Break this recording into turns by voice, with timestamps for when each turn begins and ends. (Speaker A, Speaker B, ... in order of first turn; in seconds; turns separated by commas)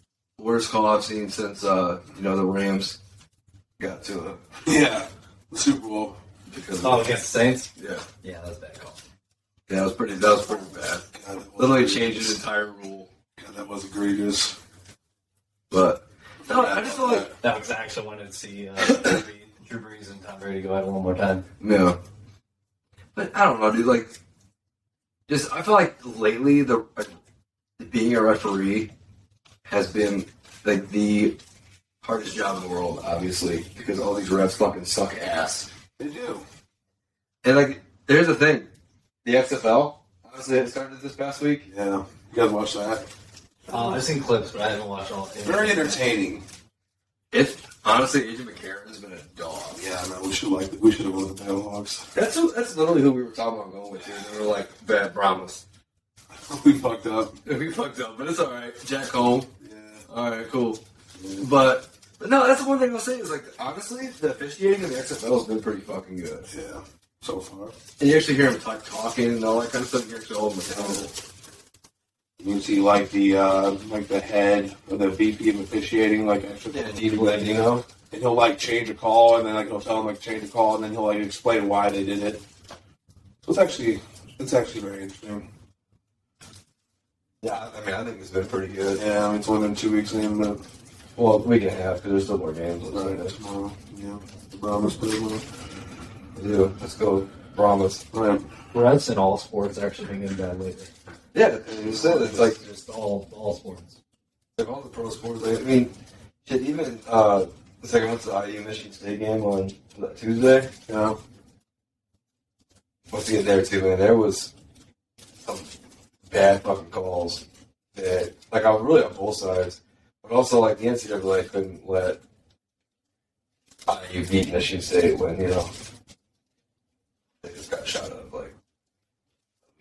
Speaker A: 0.4-3.0, Speaker A: 3.8-4.4, Speaker B: 4.7-6.2, Speaker A: 6.5-7.1, Speaker C: 6.8-7.7, Speaker A: 7.8-8.1, Speaker C: 8.2-9.0, Speaker A: 9.7-11.1, Speaker B: 11.1-12.4, Speaker A: 11.6-13.1, Speaker B: 13.4-14.6, Speaker A: 15.7-17.3, Speaker B: 16.5-17.4, Speaker C: 17.4-21.5, Speaker A: 21.6-22.0, Speaker A: 23.1-24.2, Speaker A: 25.3-27.1, Speaker A: 27.8-28.9, Speaker A: 29.6-31.4, Speaker A: 32.0-35.7, Speaker B: 36.0-36.4, Speaker A: 37.4-38.7, Speaker A: 39.2-41.7, Speaker B: 41.7-43.1, Speaker C: 43.7-46.0, Speaker B: 45.4-46.4, Speaker A: 47.3-49.8, Speaker B: 49.8-52.1, Speaker A: 52.1-55.6, Speaker B: 56.5-57.4, Speaker A: 57.5-59.5, Speaker B: 59.6-60.0, Speaker A: 60.1-60.8, Speaker B: 61.2-61.5, Speaker A: 61.4-66.5, Speaker B: 66.5-67.8, Speaker A: 68.0-71.2, Speaker B: 70.7-71.0, Speaker B: 72.4-77.5, Speaker A: 76.7-77.9, Speaker B: 78.1-82.4, Speaker B: 83.4-85.5, Speaker A: 87.4-89.0, Speaker B: 89.0-90.6, Speaker A: 91.2-93.3, Speaker B: 92.9-95.5, Speaker A: 96.4-98.0, Speaker B: 98.1-98.5, Speaker C: 98.7-100.9, Speaker A: 101.3-102.6, Speaker B: 101.7-102.4, Speaker C: 102.4-104.0, Speaker A: 104.6-110.7, Speaker B: 110.9-111.2, Speaker A: 113.1-114.5, Speaker A: 115.5-115.7, Speaker A: 116.3-122.2, Speaker A: 123.9-125.7, Speaker A: 127.4-128.6